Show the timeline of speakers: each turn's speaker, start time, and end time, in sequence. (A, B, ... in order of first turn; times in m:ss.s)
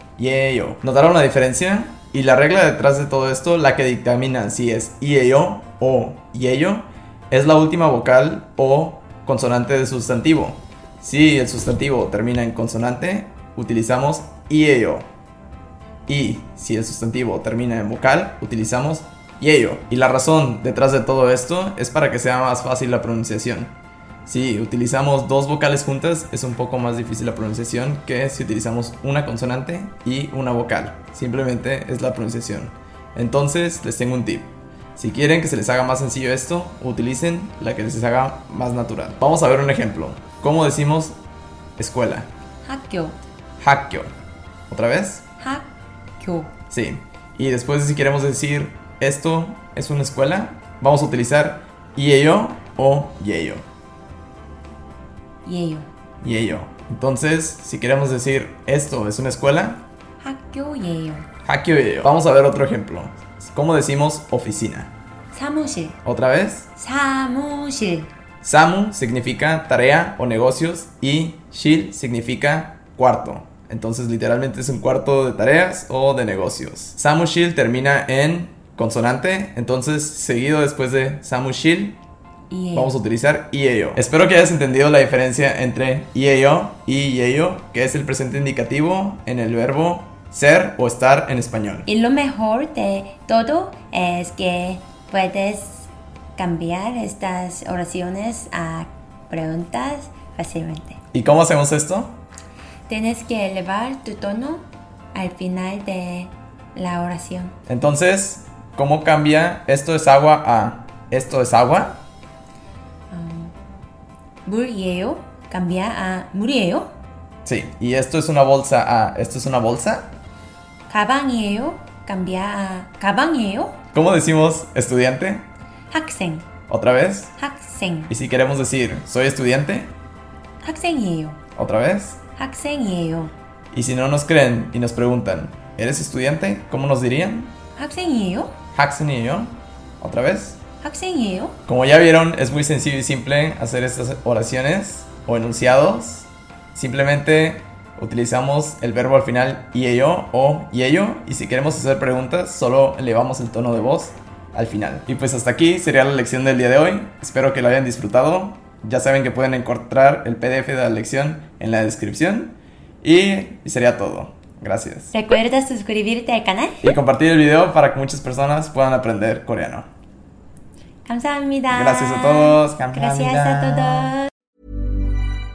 0:00.2-0:15.1 A
0:16.1-0:23.8 A
0:24.3-0:41.2 A
0:41.8-0:42.3 A
0:42.6-0:43.2 B
0:43.6-0:44.1 A
0:44.7-0:45.3 A
0:45.4-0:46.5 B
0:46.7-0:53.7 A
0:55.4-0:55.9 B
0:56.2-0:59.8 A
1:00.2-1:01.3 B
1:01.4-1:04.9 A
1:05.3-1:06.0 B
1:06.0-1:06.7 A
1:06.8-1:08.1 B
1:08.4-1:22.0 A
1:22.5-1:23.0 B
1:22.7-1:31.9 A
1:31.9-1:41.0 B
1:41.1-1:42.2 A
1:42.9-1:47.6 B
1:47.7-1:52.0 A
1:53.1-1:53.5 B
1:54.4-1:56.9 B
1:57.4-2:00.2 A
2:00.9-2:03.8 B
2:03.9-2:05.5 A
2:05.9-2:06.5 B
2:06.7-2:07.4 A
2:07.4-2:08.1 B
2:08.1-2:09.9 A
2:10.6-2:11.4 B
2:11.6-2:12.2 A
2:12.4-2:13.3 B
2:13.7-2:17.6 A
2:17.8-2:18.5 B
2:18.7-2:20.6 A
2:20.8-2:21.6 B
2:21.7-2:45.1 A
2:45.1-2:46.9 B
2:46.8-2:49.9 A
2:51.1-2:54.3 B
2:51.7-2:54.2 A